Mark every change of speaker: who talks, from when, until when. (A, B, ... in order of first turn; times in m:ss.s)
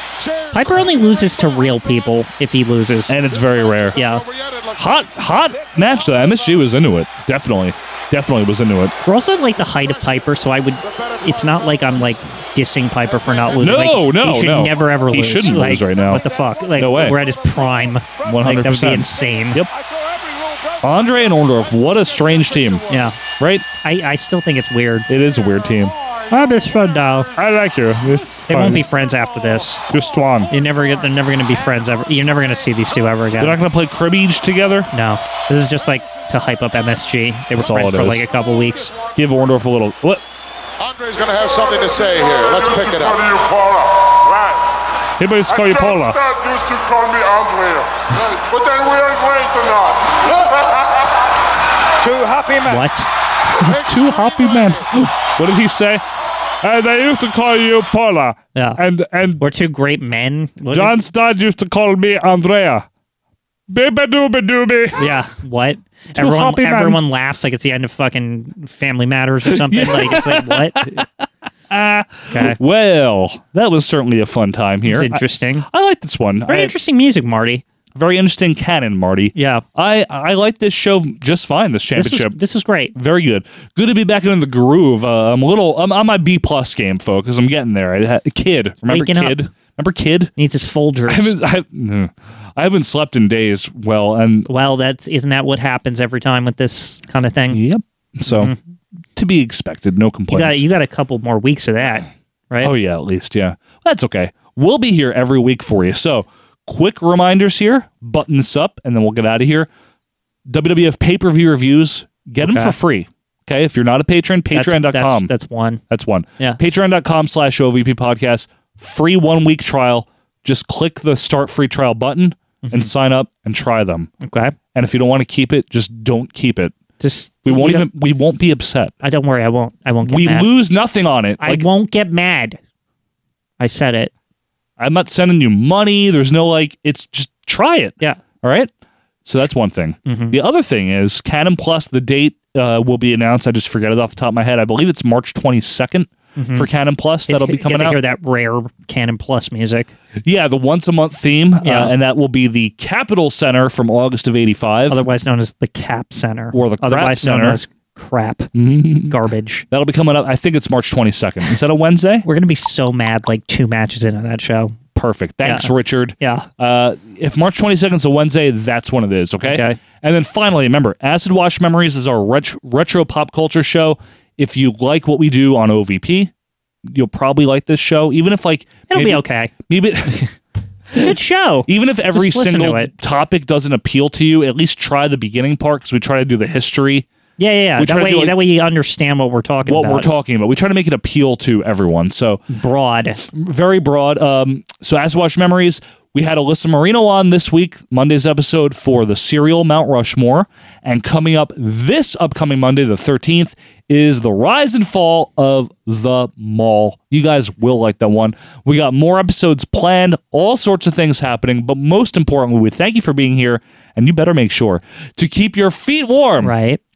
0:00.2-0:02.2 A
0:00.5-0:03.2 B
0:03.1-0:04.0 C
0:03.2-0:05.1 A
0:04.0-0:04.2 B
0:04.8-0:09.0 C
0:06.2-0:06.6 A
0:09.0-0:19.6 B
0:09.7-0:12.1 A
0:13.0-0:13.6 A
0:13.6-0:17.2 C
0:16.3-0:18.3 D
0:18.2-0:19.7 C
0:19.8-0:20.8 D
0:20.8-0:22.8 C
0:21.5-0:23.2 A
0:22.9-0:23.2 B
0:23.4-0:23.6 C
0:23.8-0:25.1 B
0:25.1-0:26.0 C
0:25.2-0:28.3 A
0:26.3-0:27.3 B
0:27.4-0:28.8 C
0:28.5-0:29.8 B
0:28.9-0:32.4 A
0:29.9-0:30.5 C
0:30.5-0:33.6 B
0:33.4-0:34.9 C
0:34.9-0:39.0 B
0:36.0-0:36.7 A
0:37.5-0:38.3 C
0:38.4-0:39.1 A
0:39.2-0:40.2 C
0:40.8-0:44.6 A
0:45.2-0:46.2 C
0:45.5-0:50.8 A
0:52.0-0:52.8 D
0:52.7-0:53.1 B
0:53.5-0:56.0 C
0:53.6-0:54.9 A
0:56.6-0:59.4 C
0:58.6-0:58.8 B
0:59.4-1:01.0 B
1:00.7-1:02.9 C
1:03.7-1:05.1 C
1:05.0-1:11.0 B
1:06.2-1:07.0 C
1:09.5-1:11.0 C
1:11.7-1:16.8 C
1:12.3-1:12.6 B
1:14.9-1:15.7 B
1:16.5-1:17.6 B
1:18.0-1:22.4 C
1:19.4-1:19.6 B
1:22.0-1:22.9 B
1:22.9-1:30.3 C
1:28.9-1:29.4 B
1:30.4-1:31.3 B
1:31.1-1:34.5 C
1:34.5-1:37.6 B
1:37.5-1:38.5 C
1:38.3-1:38.6 B
1:39.2-1:40.6 C
1:40.3-1:42.7 B
1:42.6-1:49.7 C
1:50.5-1:55.3 C
1:52.4-1:52.8 B
1:54.5-1:55.8 B
1:55.9-2:04.1 C
2:02.6-2:02.9 B
2:04.2-2:04.6 B
2:04.7-2:06.8 C
2:07.0-2:07.9 B
2:07.4-2:08.9 C
2:09.0-2:10.5 B
2:10.0-2:11.7 C
2:11.4-2:12.6 B
2:13.6-2:14.1 B
2:14.8-2:18.7 C
2:19.2-2:28.0 C
2:20.1-2:20.4 B
2:26.4-2:26.7 B
2:27.3-2:29.9 B
2:30.2-2:35.0 C
2:31.6-2:31.9 B
2:34.9-2:38.5 B
2:36.5-2:37.6 C
2:38.6-2:39.2 C
2:39.1-2:39.7 B
2:39.7-2:42.3 C
2:42.2-2:44.8 B
2:45.0-2:56.3 C
2:45.4-2:46.5 B
2:49.4-2:49.8 B
2:56.9-3:00.2 C
2:58.9-2:59.5 B
3:00.9-3:02.9 B
3:01.7-3:07.1 C
3:07.4-3:10.1 B
3:07.8-3:08.4 C
3:09.6-3:12.4 C
3:12.5-3:13.2 B
3:13.3-3:36.5 C
3:36.4-3:36.8 B